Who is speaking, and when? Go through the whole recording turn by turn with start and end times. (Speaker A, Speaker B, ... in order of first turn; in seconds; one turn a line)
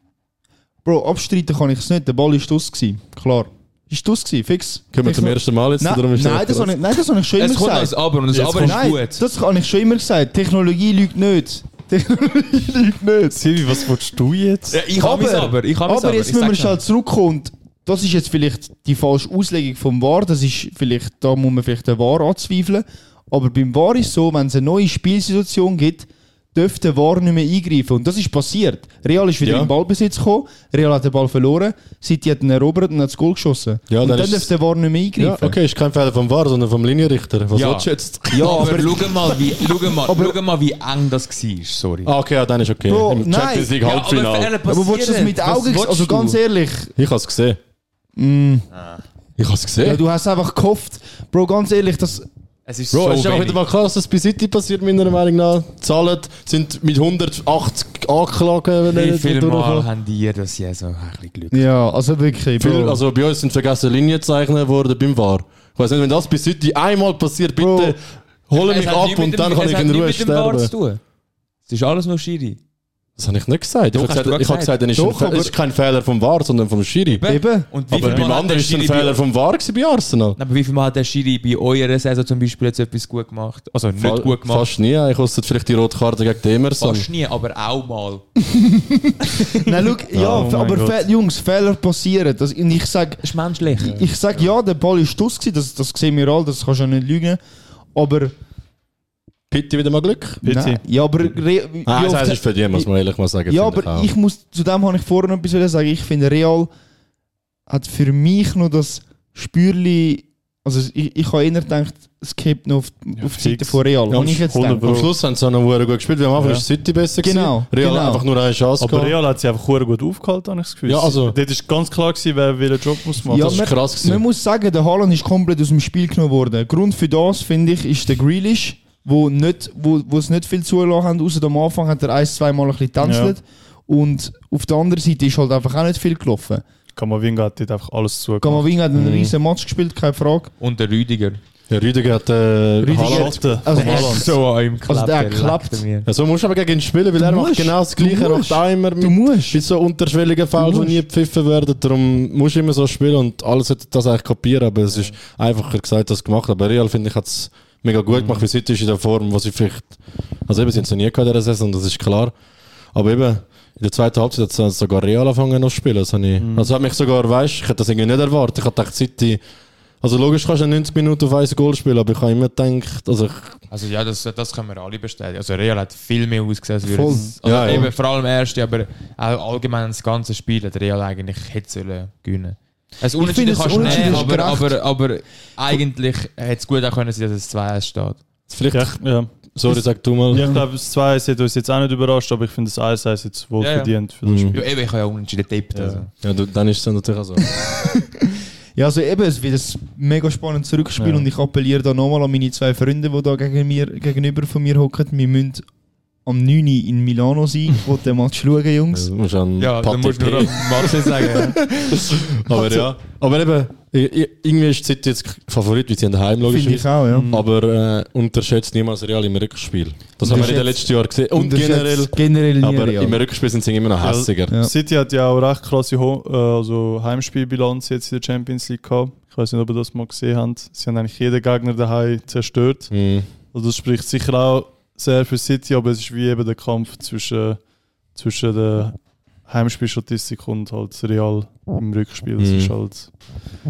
Speaker A: 0.8-8.0
Speaker B: 4.9-6.7
Speaker C: 7.4-9.2
Speaker D: 8.3-8.8
Speaker A: 8.5-13.4
Speaker D: 13.3-14.8
Speaker C: 14.7-16.8
Speaker A: 15.0-35.6
Speaker B: 29.4-29.7
Speaker B: 33.9-34.5
Speaker B: 35.2-38.8
Speaker C: 37.5-42.1
Speaker A: 38.3-39.4
Speaker A: 40.0-40.4
Speaker B: 42.0-44.5
Speaker A: 42.9-43.8
Speaker C: 43.8-46.4
Speaker A: 44.6-46.9
Speaker B: 47.0-47.6
Speaker A: 48.2-48.7
Speaker C: 48.7-49.0
Speaker B: 49.4-50.0
Speaker A: 49.8-52.3
Speaker C: 52.7-53.6
Speaker B: 52.9-59.9
Speaker C: 58.9-61.7
Speaker A: 61.5-63.0
Speaker B: 62.6-70.7
Speaker A: 67.6-68.0
Speaker C: 68.5-71.0
Speaker C: 71.7-72.6
Speaker B: 73.2-77.2
Speaker C: 73.9-74.8
Speaker A: 75.0-75.5
Speaker C: 77.1-79.2
Speaker A: 77.3-77.7
Speaker B: 77.9-80.4
Speaker D: 78.0-78.2
Speaker C: 80.4-84.7
Speaker B: 84.0-87.1
Speaker C: 86.8-88.2
Speaker A: 88.5-97.4
Speaker B: 90.1-90.5
Speaker D: 90.2-91.0
Speaker C: 93.2-94.0
Speaker A: 98.0-98.3
Speaker B: 99.5-100.4
Speaker A: 100.4-102.9
Speaker D: 100.4-100.8
Speaker B: 101.9-104.1
Speaker A: 103.5-106.7
Speaker A: 107.7-115.0
Speaker D: 113.2-115.1
Speaker B: 114.1-119.2
Speaker D: 116.4-116.7
Speaker A: 117.2-118.2
Speaker D: 118.8-123.7
Speaker B: 120.9-121.4
Speaker A: 123.3-136.6
Speaker B: 123.3-124.2
Speaker D: 133.0-133.4
Speaker D: 136.9-138.7
Speaker A: 138.4-140.5
Speaker B: 138.9-139.3
Speaker C: 140.6-141.4
Speaker B: 141.7-143.6
Speaker D: 142.8-144.3
Speaker A: 142.8-145.8
Speaker C: 143.7-146.1
Speaker B: 146.1-159.9
Speaker A: 147.2-149.6
Speaker A: 150.6-151.0
Speaker D: 158.1-158.4
Speaker B: 160.5-162.3
Speaker B: 162.9-169.4
Speaker D: 166.4-166.7
Speaker B: 170.0-173.6
Speaker C: 173.7-188.2
Speaker A: 176.9-177.9
Speaker B: 177.4-177.9
Speaker A: 183.2-184.8
Speaker D: 183.7-184.3
Speaker B: 188.5-189.0
Speaker D: 188.7-189.3
Speaker B: 189.6-190.5
Speaker A: 189.7-190.7
Speaker D: 190.3-194.7
Speaker C: 193.6-193.9
Speaker B: 194.2-194.6
Speaker C: 194.5-196.1
Speaker D: 195.7-196.0
Speaker B: 196.2-197.5
Speaker A: 197.5-205.7
Speaker D: 201.0-201.3
Speaker A: 206.2-209.1
Speaker B: 208.9-211.1
Speaker C: 209.6-211.7
Speaker B: 212.0-224.5
Speaker A: 212.5-212.9
Speaker A: 216.5-217.3
Speaker D: 217.1-217.4
Speaker A: 220.2-223.2
Speaker D: 220.3-220.6
Speaker D: 224.0-232.9
Speaker B: 232.9-233.3
Speaker D: 233.5-237.6
Speaker D: 238.2-243.1
Speaker B: 242.4-242.7